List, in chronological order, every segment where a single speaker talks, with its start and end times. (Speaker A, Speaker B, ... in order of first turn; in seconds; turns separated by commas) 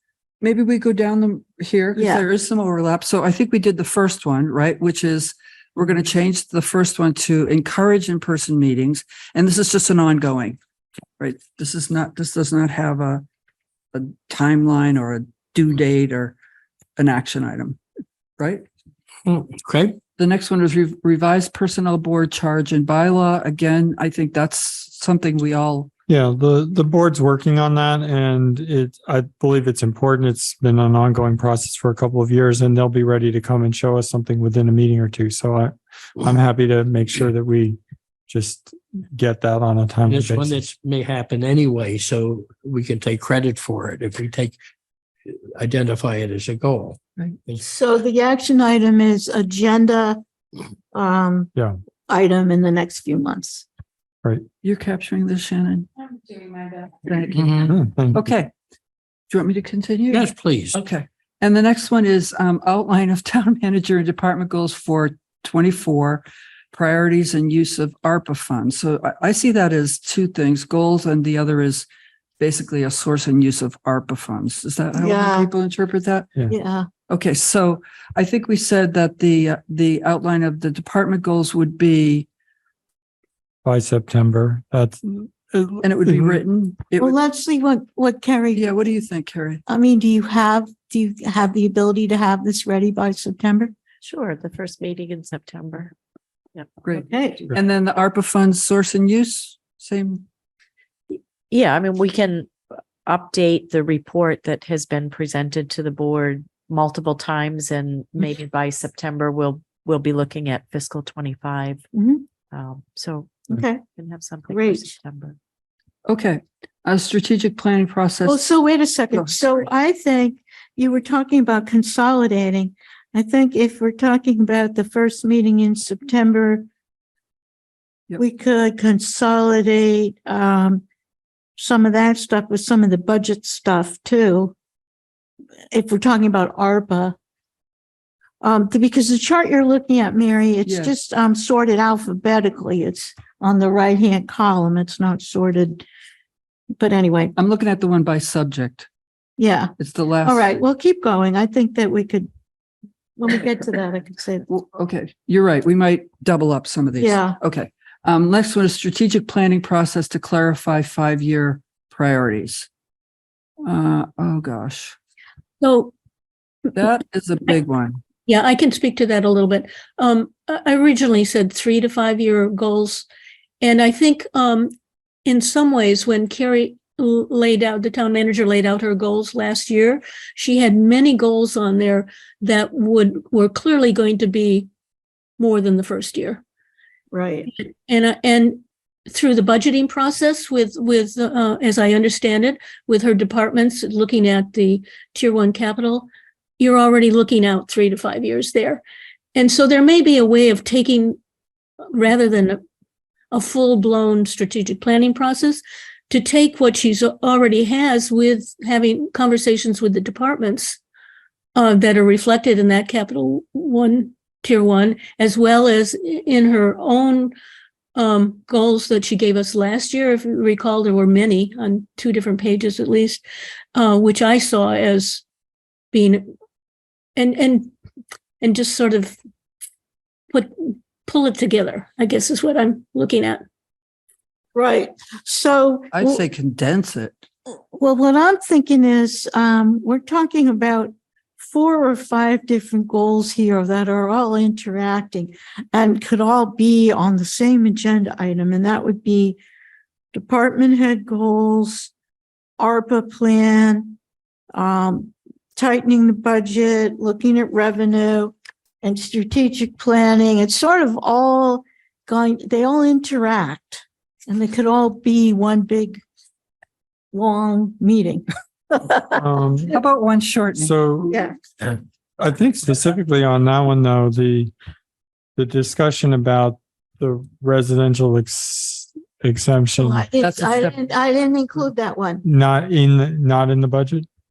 Speaker A: 0.4-10.6, Speaker B: 1.9-2.2, Speaker A: 11.2-13.2, Speaker A: 13.9-16.4, Speaker A: 17.0-17.8, Speaker A: 18.4-18.6, Speaker C: 19.3-20.0, Speaker A: 20.2-25.9, Speaker D: 26.1-40.6, Speaker C: 40.1-44.6, Speaker C: 45.3-47.7, Speaker B: 47.6-50.2, Speaker B: 50.9-51.5, Speaker B: 52.1-53.7, Speaker A: 54.6-58.5, Speaker C: 57.4-57.7, Speaker D: 57.7-58.2, Speaker A: 59.3-71.9, Speaker C: 60.1-60.8, Speaker A: 72.4-76.3, Speaker B: 75.0-75.5, Speaker B: 76.5-76.9, Speaker A: 77.1-82.3, Speaker D: 83.6-86.4, Speaker A: 85.8-87.2, Speaker B: 87.0-88.7, Speaker A: 88.5-89.6, Speaker B: 89.7-93.7, Speaker E: 94.0-95.9, Speaker A: 96.8-100.2, Speaker B: 97.0-97.5, Speaker E: 101.1-111.8, Speaker B: 111.9-112.2, Speaker E: 112.5-115.4, Speaker B: 113.5-113.8, Speaker B: 114.5-114.9, Speaker A: 116.0-118.5, Speaker B: 118.2-126.7, Speaker B: 128.2-130.8, Speaker B: 131.6-134.5, Speaker B: 135.7-137.2, Speaker B: 138.4-145.8, Speaker A: 140.7-141.0, Speaker B: 146.8-147.3, Speaker A: 147.4-148.9, Speaker B: 149.4-149.7, Speaker A: 149.8-150.6, Speaker B: 150.2-152.3, Speaker B: 153.2-154.5, Speaker A: 154.5-162.7, Speaker B: 157.0-157.4, Speaker A: 163.6-165.0, Speaker F: 165.6-165.9, Speaker A: 166.8-168.1, Speaker F: 168.2-173.1, Speaker F: 173.6-174.7, Speaker F: 175.2-184.7, Speaker F: 185.4-186.4, Speaker B: 187.1-187.5, Speaker F: 187.5-196.1, Speaker F: 196.6-198.8, Speaker F: 199.3-201.2, Speaker F: 201.9-202.6, Speaker F: 203.3-210.8, Speaker F: 211.6-217.3, Speaker F: 218.0-223.2, Speaker F: 223.8-225.2, Speaker F: 225.9-226.3, Speaker F: 227.2-227.7, Speaker F: 228.4-229.2, Speaker F: 230.3-233.4, Speaker B: 234.6-236.2, Speaker A: 235.9-237.2, Speaker B: 237.7-249.4, Speaker B: 250.1-251.9, Speaker B: 252.6-254.0, Speaker B: 254.5-266.0, Speaker B: 267.1-269.2, Speaker D: 269.1-269.8, Speaker A: 269.7-270.7, Speaker D: 270.6-271.3, Speaker D: 272.2-274.5, Speaker D: 275.4-280.1, Speaker B: 279.8-282.2, Speaker A: 280.2-280.8, Speaker D: 282.2-284.1